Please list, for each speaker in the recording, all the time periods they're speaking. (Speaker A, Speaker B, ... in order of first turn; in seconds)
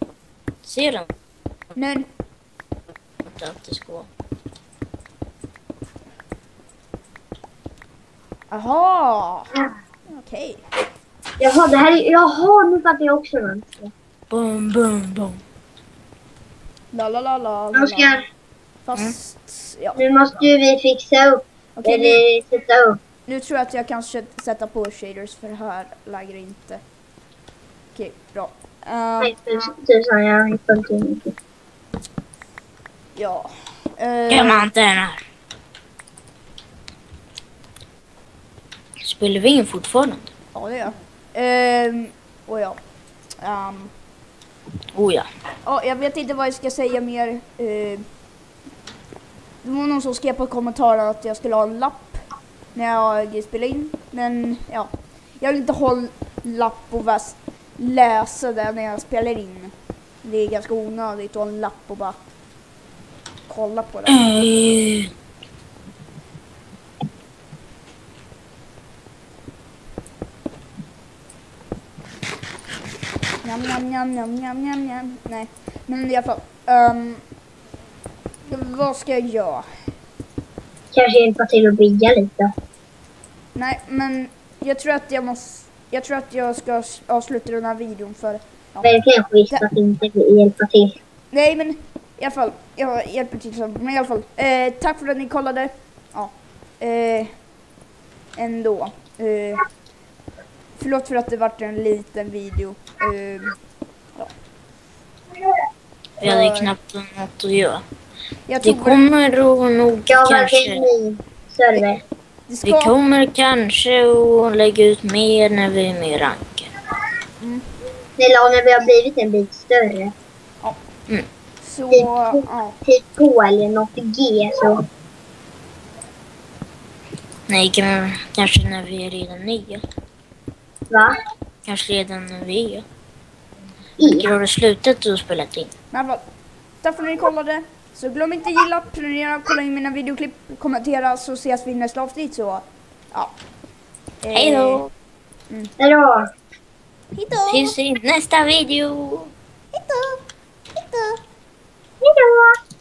Speaker A: 0.6-1.1, 3.2-4.1, 14.3-15.4, 34.3-35.2, 39.0-40.3, 44.9-45.3, 64.1-65.1, 106.2-107.8, 108.6-110.9, 112.6-116.7, 127.5-129.8, 131.6-132.8, 134.0-135.7, 144.3-144.9, 147.5-149.3
Speaker B: 1.7-2.1, 8.5-10.6, 16.9-18.2, 18.8-20.0, 21.8-22.2, 23.3-26.8, 27.9-29.7, 33.1-34.7, 40.5-42.8, 43.4-43.9, 45.6-48.0, 49.6-52.2, 52.7-62.1, 63.5-64.4, 73.4-77.2, 78.5-79.7, 83.5-88.9, 91.3-97.3, 98.3-99.7, 100.8-103.6, 106.2-106.7, 108.5-109.0, 112.5-112.9, 121.6-122.8, 135.9-136.2, 136.8-143.3, 144.2-144.8, 147.1-147.7, 149.7-150.2, 150.8-151.2
Speaker C: 11.4-13.9, 17.7-18.2, 20.0-21.4, 21.9-22.9, 29.3-31.3, 80.9-82.5, 88.8-90.9, 110.2-111.8, 118.2-120.1, 121.9-122.2, 122.8-124.8, 152.0-152.4